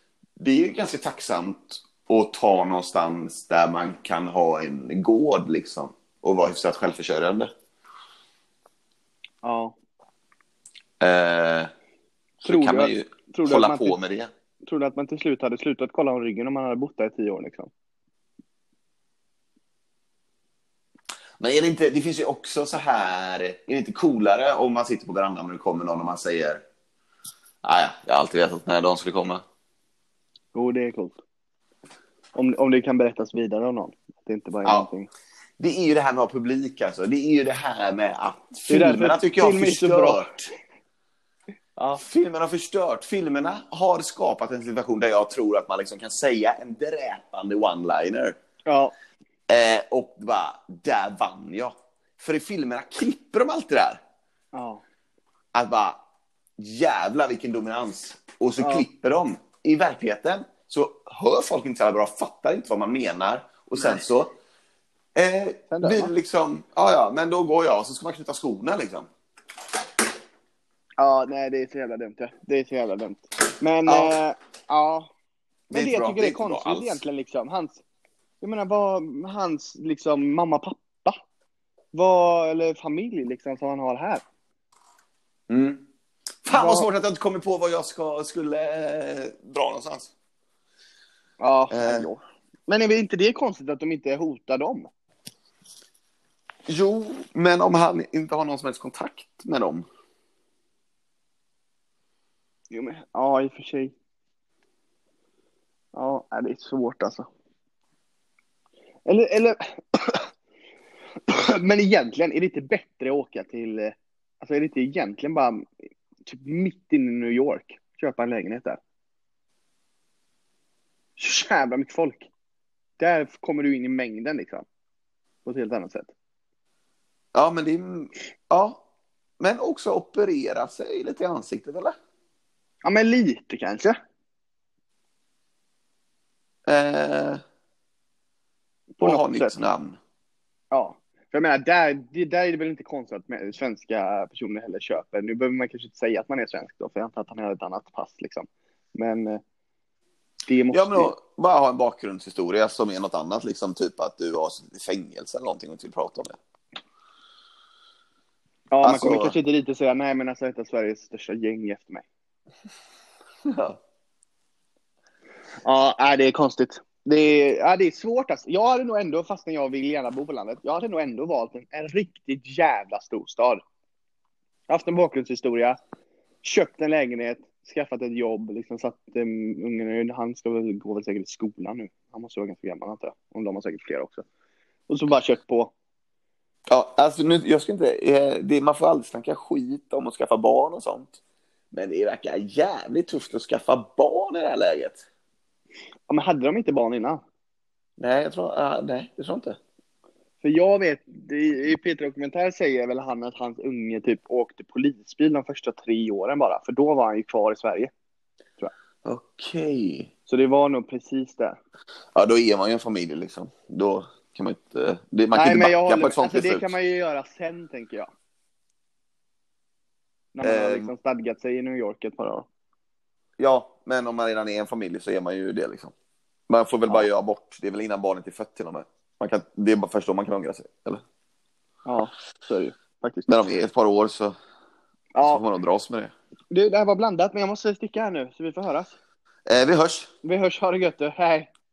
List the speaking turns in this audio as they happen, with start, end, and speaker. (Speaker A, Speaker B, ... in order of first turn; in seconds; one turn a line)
Speaker A: 0.4-7.5
Speaker B: 9.4-9.8
Speaker A: 11.0-11.7
Speaker A: 12.4-14.3
Speaker B: 12.4-14.0
Speaker B: 14.6-17.7
Speaker A: 21.4-26.6
Speaker A: 27.6-29.4
Speaker B: 30.5-31.2
Speaker B: 32.3-35.1
Speaker A: 35.6-40.5
Speaker B: 38.7-40.3
Speaker B: 41.8-42.0
Speaker A: 41.9-48.4
Speaker B: 48.6-48.9
Speaker A: 49.5-54.0
Speaker B: 54.5-54.8
Speaker A: 55.5-56.0
Speaker A: 56.6-64.3
Speaker B: 58.6-58.9
Speaker A: 65.1-69.1
Speaker B: 65.7-66.1
Speaker B: 71.0-75.1
Speaker A: 73.9-74.2
Speaker A: 75.7-77.0
Speaker B: 75.7-77.8
Speaker B: 78.4-81.2
Speaker B: 81.9-84.2
Speaker A: 85.5-85.8
Speaker A: 86.4-90.1
Speaker B: 86.5-86.9
Speaker B: 91.4-94.9
Speaker A: 91.7-92.1
Speaker A: 96.7-99.8
Speaker B: 102.7-103.9
Speaker B: 105.9-107.2
Speaker B: 109.0-110.3
Speaker B: 111.3-115.7
Speaker B: 116.2-118.8
Speaker B: 121.2-122.3
Speaker B: 123.0-124.6
Speaker B: 125.4-126.1
Speaker A: 127.3-128.8
Speaker A: 129.4-131.9
Speaker B: 132.8-133.9
Speaker A: 136.7-137.4
Speaker B: 139.0-139.6
Speaker A: 139.0-140.0
Speaker B: 140.7-149.4
Speaker B: 150.4-151.1
Speaker A: 150.7-156.4
Speaker B: 158.7-162.1
Speaker A: 158.8-159.4
Speaker A: 163.5-163.8
Speaker B: 165.6-173.6
Speaker B: 174.7-175.8
Speaker B: 176.4-184.2
Speaker B: 184.9-185.7
Speaker A: 186.7-191.2
Speaker A: 191.7-195.0
Speaker B: 196.1-197.2
Speaker A: 198.0-199.6
Speaker B: 200.4-207.9
Speaker A: 209.0-210.1
Speaker B: 210.3-211.6
Speaker A: 212.1-216.7
Speaker B: 215.3-218.1
Speaker B: 220.3-222.5
Speaker A: 220.4-220.9
Speaker A: 223.4-225.9
Speaker A: 226.5-231.0
Speaker B: 231.8-233.3
Speaker A: 233.3-234.3
Speaker B: 235.1-235.4
Speaker A: 235.2-236.1
Speaker B: 236.5-238.9
Speaker A: 239.5-240.1
Speaker B: 240.2-241.5